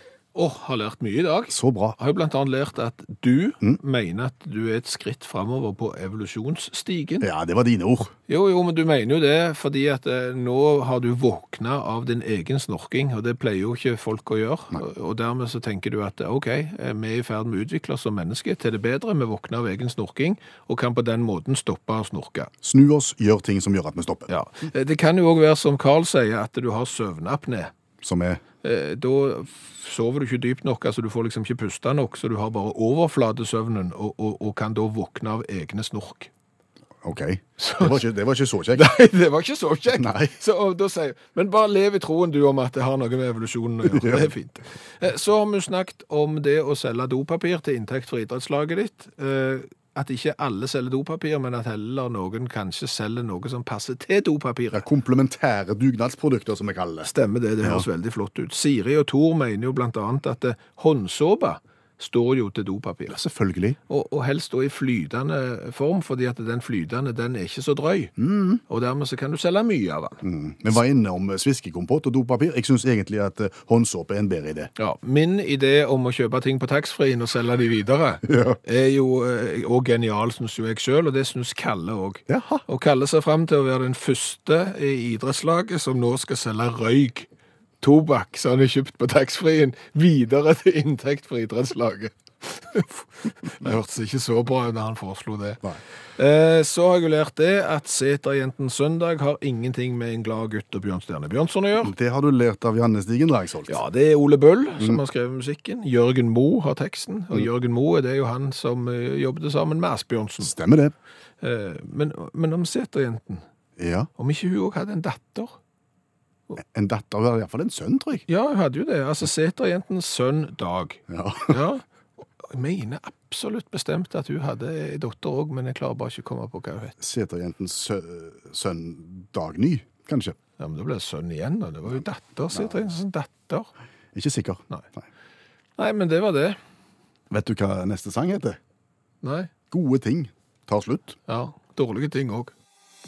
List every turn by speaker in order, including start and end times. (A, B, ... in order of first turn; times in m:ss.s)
0:00.4-0:07.3 A
0:01.5-0:02.0 B
0:07.2-0:08.1 B
0:08.3-0:22.5 A
0:22.6-0:24.3 B
0:24.3-0:27.7 A
0:28.0-0:28.4 B
0:28.6-0:36.3 A
0:37.0-0:38.9 B
0:37.6-0:38.1 A
0:38.8-0:54.8 A
0:40.0-0:40.3 B
0:43.8-0:44.3 B
0:54.7-0:57.1 B
0:57.1-1:03.2 A
0:57.6-0:57.9 B
1:03.1-1:03.8 B
1:03.9-1:08.2 A
1:08.2-1:08.6 B
1:08.7-1:10.2 A
1:10.2-1:14.7 B
1:14.8-1:27.3 A
1:18.3-1:18.6 B
1:22.3-1:22.6 B
1:27.8-1:41.9 A
1:41.8-1:43.8 B
1:43.7-1:50.5 A
1:50.4-1:50.9 B
1:51.4-1:53.4 A
1:53.8-1:54.1 B
1:54.2-1:55.6 A
1:56.6-1:58.2 B
1:58.3-2:01.8 A
2:01.1-2:01.6 B
2:02.4-2:07.0 A
2:07.0-2:10.4 B
2:10.6-2:13.7 A
2:11.9-2:12.8 B
2:14.1-2:15.1 B
2:15.8-2:16.6 A
2:17.3-2:18.6 B
2:19.2-2:19.5 A
2:19.7-2:21.2 B
2:21.3-2:22.5 A